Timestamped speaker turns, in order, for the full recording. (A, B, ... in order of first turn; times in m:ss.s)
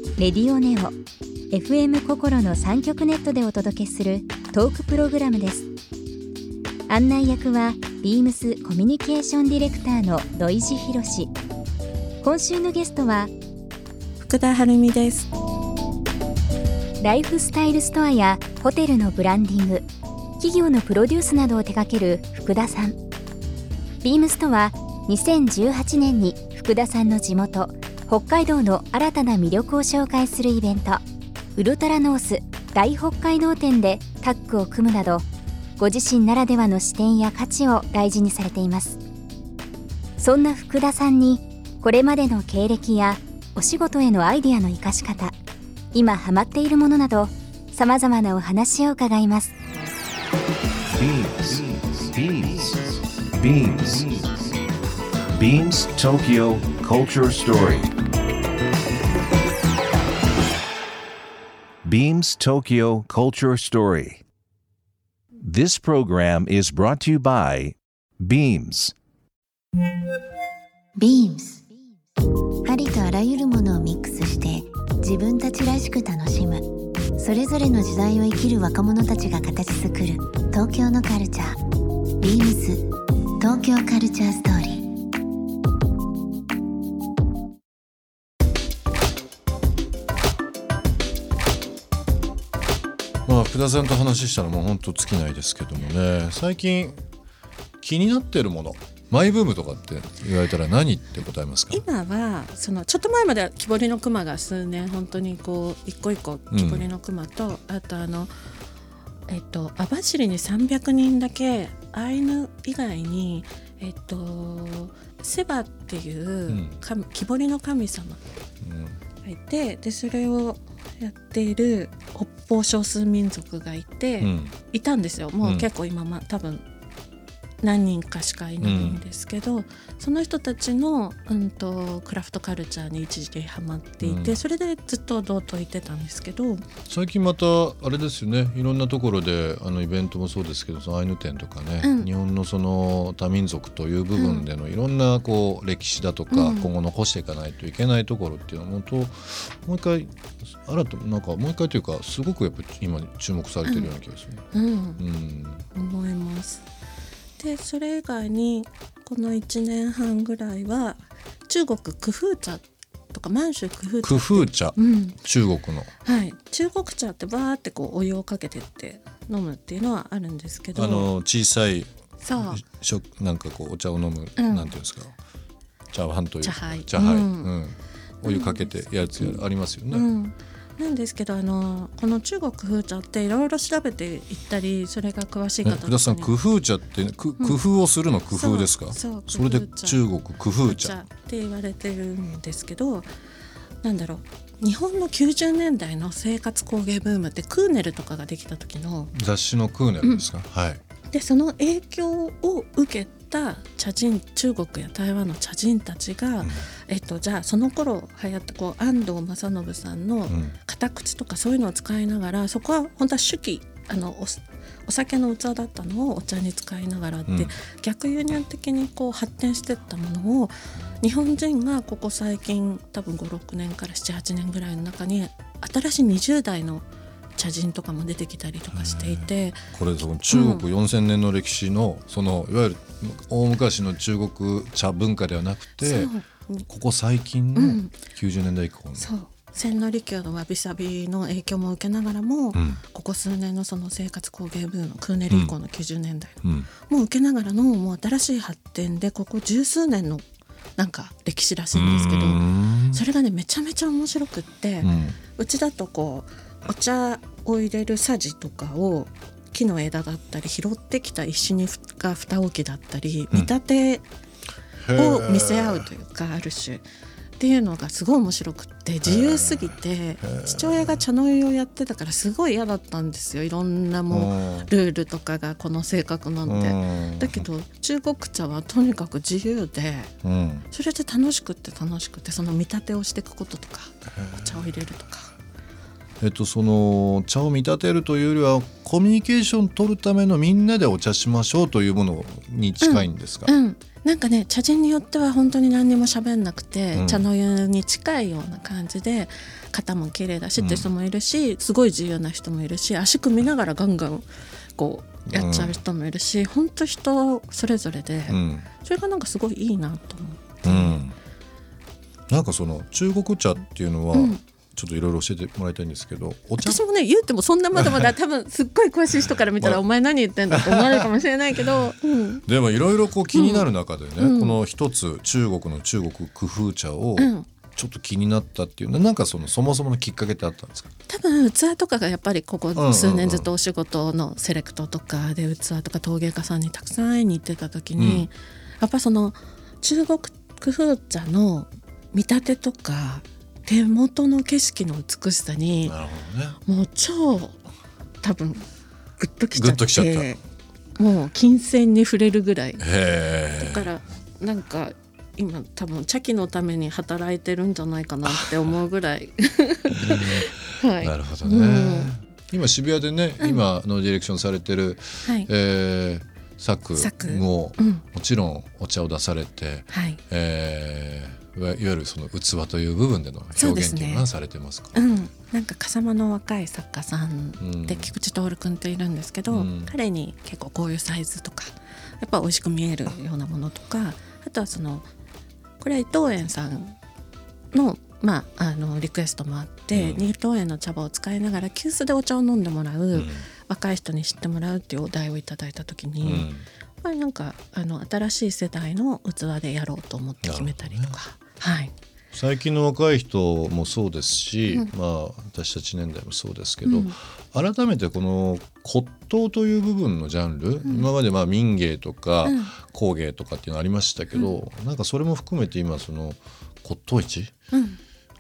0:00.2-0:00.9 A
0:01.5-0:05.7 A
0:06.9-0:11.3 A
0:12.2-0:13.3 A
0:14.2-0:15.3 B
0:17.0-0:19.9 A
0:20.4-0:23.0 A
0:24.0-0:31.0 A
0:31.6-0:35.2 A
0:35.8-0:39.0 A
0:40.2-0:45.4 A
0:45.9-0:49.5 A
0:50.9-0:54.5 C
0:55.3-0:57.9 C
1:01.8-1:04.2 C
1:05.4-1:09.0 C
1:11.0-1:11.6 D
1:12.6-1:21.6 D
1:22.2-1:22.9 D
1:23.4-1:24.9 D
1:33.3-1:37.0 E
1:37.8-1:41.8 E
1:41.7-1:48.3 B
1:46.5-1:46.9 E
1:49.3-1:58.2 B
1:56.5-1:56.8 E
1:58.6-1:59.0 E
1:59.2-2:06.6 B
2:04.2-2:04.6 E
2:05.4-2:05.7 E
2:07.6-2:16.6 B
2:08.6-2:09.0 E
2:14.0-2:14.4 E
2:16.9-2:34.4 E
2:21.8-2:22.1 B
2:24.2-2:24.5 B
2:26.3-2:26.7 B
2:33.7-2:33.9 B
2:34.5-2:35.0 B
2:35.0-2:35.6 E
2:35.8-2:36.6 B
2:37.4-2:45.2 B
2:44.0-2:45.9 E
2:46.0-2:51.1 B
2:50.8-2:55.2 E
2:52.2-2:52.6 B
2:54.4-2:54.8 B
2:55.9-3:00.1 E
2:56.4-2:57.5 B
2:58.2-3:06.3 B
3:05.6-3:11.0 E
3:08.3-3:10.0 B
3:10.6-3:13.1 B
3:13.8-3:19.1 B
3:19.1-3:20.8 E
3:21.1-3:49.6 B
3:26.4-3:26.7 E
3:30.3-3:30.6 E
3:37.3-3:37.6 E
3:48.7-3:56.1 E
3:50.3-3:50.6 B
3:55.8-3:56.6 B
3:56.7-3:59.1 E
3:57.6-3:57.9 B
3:59.0-4:10.2 B
4:02.6-4:02.8 E
4:05.3-4:05.6 E
4:06.4-4:06.7 E
4:10.8-4:24.0 B
4:11.7-4:13.0 E
4:14.8-4:15.2 E
4:24.8-4:25.9 E
4:25.0-4:26.8 B
4:27.4-4:40.1 B
4:29.1-4:31.0 E
4:34.1-4:34.7 E
4:36.5-4:37.5 E
4:40.2-4:40.7 E
4:40.7-4:45.3 B
4:44.1-4:44.5 E
4:46.2-4:53.5 E
4:52.8-5:11.0 B
4:56.9-4:57.3 E
5:00.6-5:00.9 E
5:05.3-5:05.8 E
5:08.3-5:08.7 E
5:10.6-5:11.2 E
5:12.3-5:16.8 E
5:14.1-5:14.4 B
5:16.6-5:22.5 B
5:17.8-5:18.1 E
5:19.1-5:19.8 E
5:20.6-5:21.1 E
5:22.5-5:30.9 E
5:23.3-5:24.6 B
5:27.2-5:27.4 B
5:31.1-5:46.0 B
5:32.8-5:33.5 E
5:38.0-5:38.3 E
5:45.8-5:46.6 E
5:46.7-5:47.6 B
5:48.2-5:48.7 B
5:49.2-5:50.4 B
5:49.5-5:50.3 E
5:51.0-5:52.9 B
5:52.8-5:53.9 E
5:53.6-6:02.1 B
5:58.3-5:58.6 E
5:59.9-6:15.0 E
6:05.2-6:05.5 B
6:07.0-6:08.0 B
6:09.9-6:10.2 B
6:13.6-6:14.3 B
6:15.0-6:25.1 B
6:17.6-6:18.1 E
6:19.5-6:19.9 E
6:25.8-6:27.0 B
6:27.7-6:36.5 B
6:29.9-6:30.3 E
6:33.1-6:33.5 E
6:36.2-6:36.7 E
6:37.0-6:41.9 B
6:40.4-6:41.2 E
6:42.3-6:57.5 E
6:46.9-6:47.2 B
6:50.8-6:51.1 B
6:52.4-6:52.8 B
6:57.7-6:58.0 B